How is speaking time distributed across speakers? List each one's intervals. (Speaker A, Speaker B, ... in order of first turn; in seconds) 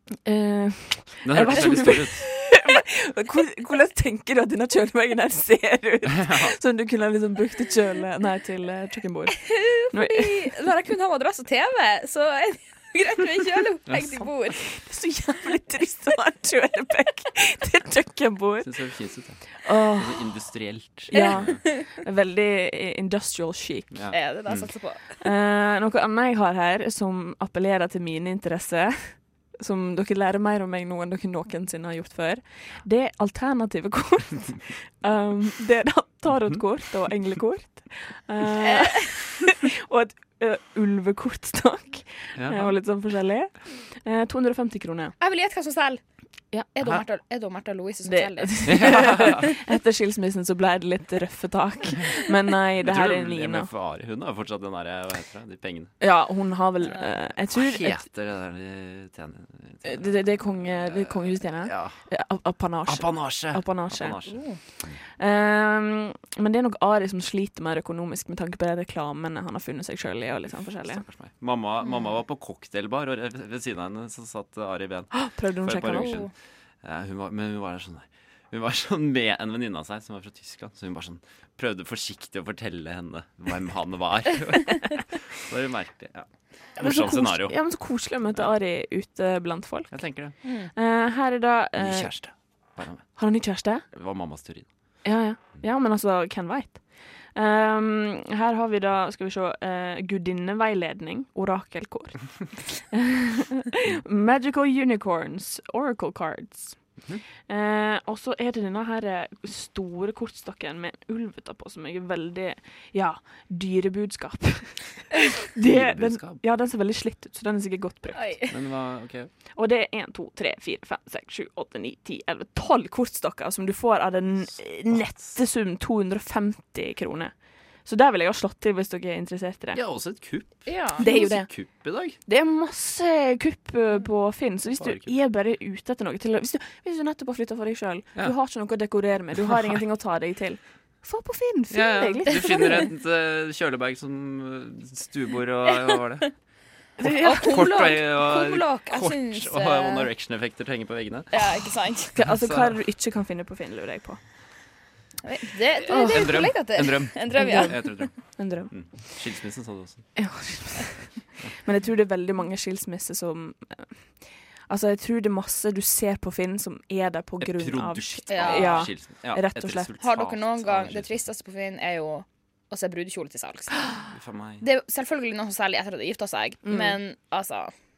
Speaker A: 0.2-10.5, 14.6-18.8, 19.6-20.3, 21.1-24.0, 25.2-45.1, 48.0-53.7, 56.0-58.0, 59.8-64.2, 65.2-71.0, 75.1-76.2, 86.8-89.9, 90.7-92.1, 93.2-93.8, 95.0-106.8, 107.5-118.3, 119.5-127.3, 127.8-129.8, 131.0-142.8, 147.0-147.8, 152.1-154.2, 155.9-156.5, 157.3-157.8, 158.3-158.7, 160.2-161.1, 161.6-164.1, 164.7-169.9, 176.6-177.0
Speaker B: 1.2-2.2, 6.1-6.5, 13.9-14.2, 18.6-21.6, 23.9-24.7, 42.4-42.7, 48.6-49.4, 52.8-55.9, 57.5-60.1, 61.6-61.9, 62.9-65.0, 70.8-76.3, 76.8-87.5, 89.9-90.3, 91.8-93.2, 93.9-94.7, 115.6-116.4, 118.5-119.3, 129.7-132.2, 134.8-135.1, 141.7-146.3, 147.4-151.4, 152.2-152.8, 155.9-160.1, 167.4-171.1, 174.1-174.6
Speaker C: 9.5-14.6, 21.1-21.7, 24.1-25.0, 45.2-46.0, 46.7-49.3, 64.2-64.6, 75.9-76.3, 90.4-90.7, 118.1-118.5, 130.7-131.0, 147.1-150.1, 151.3-152.1, 155.2-158.1, 168.3-168.9, 170.0-173.8, 174.6-177.7